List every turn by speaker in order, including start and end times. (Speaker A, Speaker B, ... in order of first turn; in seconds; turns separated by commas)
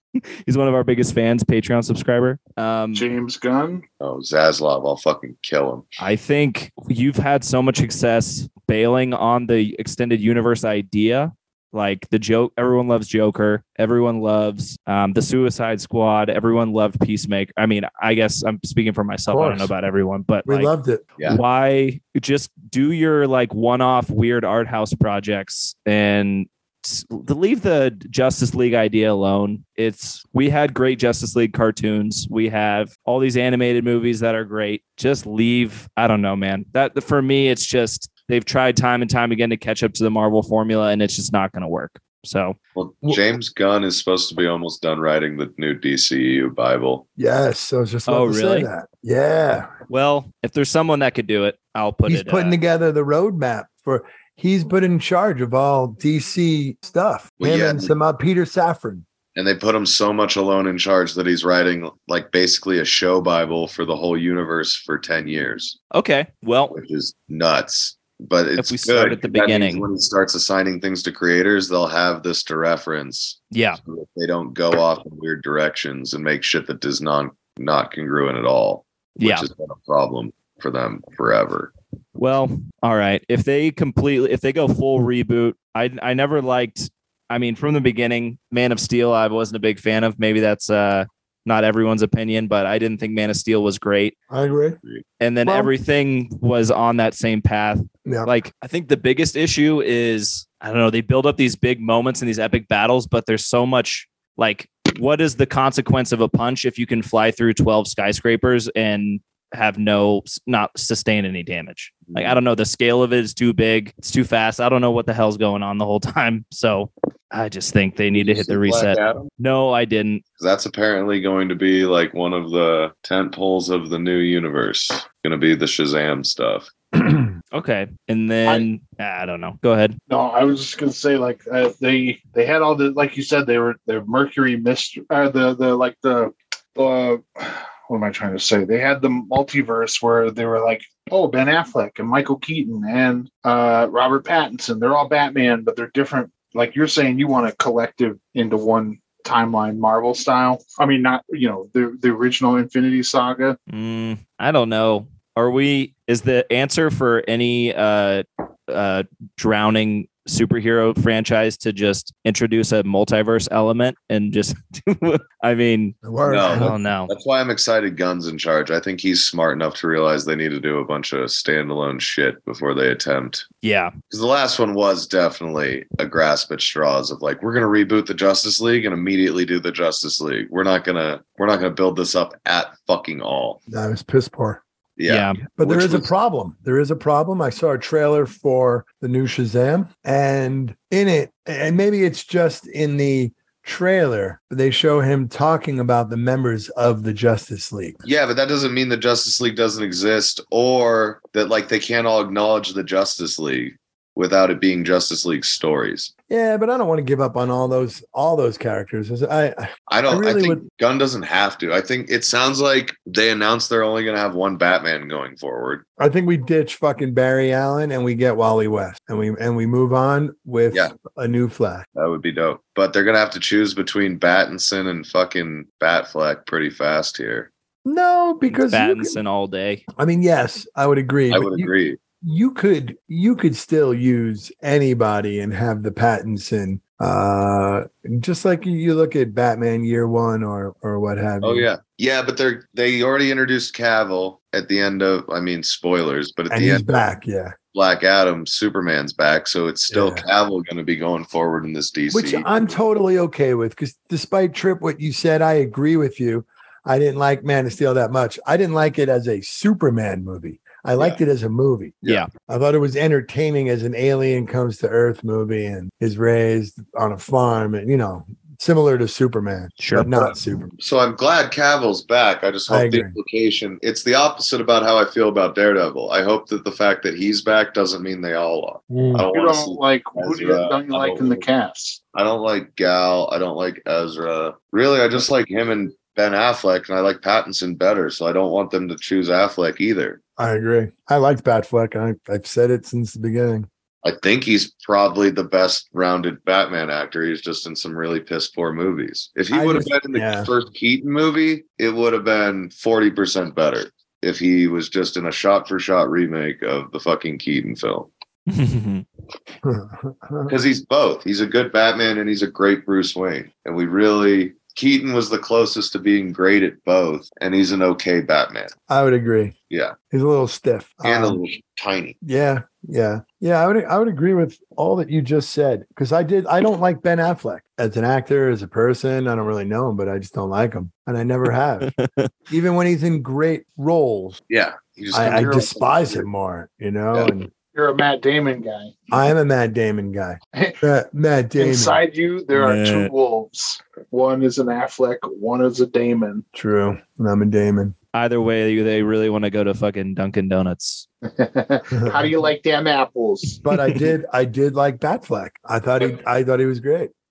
Speaker A: 0.4-3.1, Speaker B: 2.9-3.8, Speaker C: 4.0-6.0, Speaker A: 6.0-20.7, Speaker D: 19.3-19.7, Speaker D: 20.5-21.1, Speaker A: 21.2-42.6, Speaker C: 42.8-47.0, Speaker D: 47.2-49.7, Speaker A: 48.1-48.7, Speaker A: 49.9-52.6, Speaker D: 52.1-59.0, Speaker C: 57.4-57.9, Speaker C: 59.4-65.8, Speaker A: 65.9-66.7, Speaker C: 66.7-81.7, Speaker A: 68.6-69.9, Speaker A: 73.5-73.8, Speaker A: 79.2-79.5, Speaker A: 82.2-94.2, Speaker D: 94.3-94.8, Speaker A: 95.2-120.2, Speaker D: 95.5-95.7, Speaker D: 98.0-98.3, Speaker C: 112.1-112.4, Speaker C: 118.2-119.3, Speaker C: 120.4-126.7, Speaker A: 127.5-130.0, Speaker B: 130.1-153.6, Speaker A: 153.7-166.0, Speaker D: 166.0-166.8, Speaker C: 166.2-173.4, Speaker A: 166.5-167.1, Speaker A: 173.6-173.9, Speaker C: 174.1-183.6, Speaker D: 183.7-184.6, Speaker C: 185.0-186.1, Speaker A: 185.1-185.4, Speaker D: 185.6-198.0, Speaker C: 198.0-206.1, Speaker D: 206.3-210.6, Speaker C: 209.9-215.8, Speaker D: 216.0-221.8, Speaker C: 222.0-227.5, Speaker D: 227.8-229.2, Speaker A: 228.5-229.8, Speaker D: 230.0-231.7, Speaker C: 231.3-232.0, Speaker D: 232.2-241.7, Speaker C: 241.4-247.0, Speaker D: 246.5-247.6, Speaker C: 247.7-252.8, Speaker D: 249.9-250.2, Speaker D: 252.1-270.7, Speaker A: 269.8-270.1, Speaker C: 270.8-281.5, Speaker D: 272.7-273.1, Speaker D: 278.9-279.2, Speaker B: 279.3-282.0, Speaker C: 282.1-290.2, Speaker D: 290.4-293.7, Speaker C: 294.0-308.1, Speaker D: 299.5-300.5, Speaker A: 308.5-309.1, Speaker D: 309.6-310.6, Speaker C: 310.5-318.7, Speaker D: 318.9-319.6, Speaker C: 319.7-319.9, Speaker D: 320.1-321.4, Speaker C: 321.0-322.2, Speaker D: 322.2-331.9, Speaker A: 331.8-332.3, Speaker D: 332.5-334.4, Speaker C: 334.5-336.3, Speaker D: 335.1-337.5, Speaker B: 335.2-335.7, Speaker B: 337.7-339.2, Speaker D: 339.1-342.0, Speaker B: 340.5-340.8, Speaker B: 341.6-346.4, Speaker A: 342.6-343.1, Speaker D: 346.5-347.9, Speaker A: 348.1-351.1, Speaker B: 351.3-353.6, Speaker D: 351.9-352.3, Speaker D: 353.6-357.1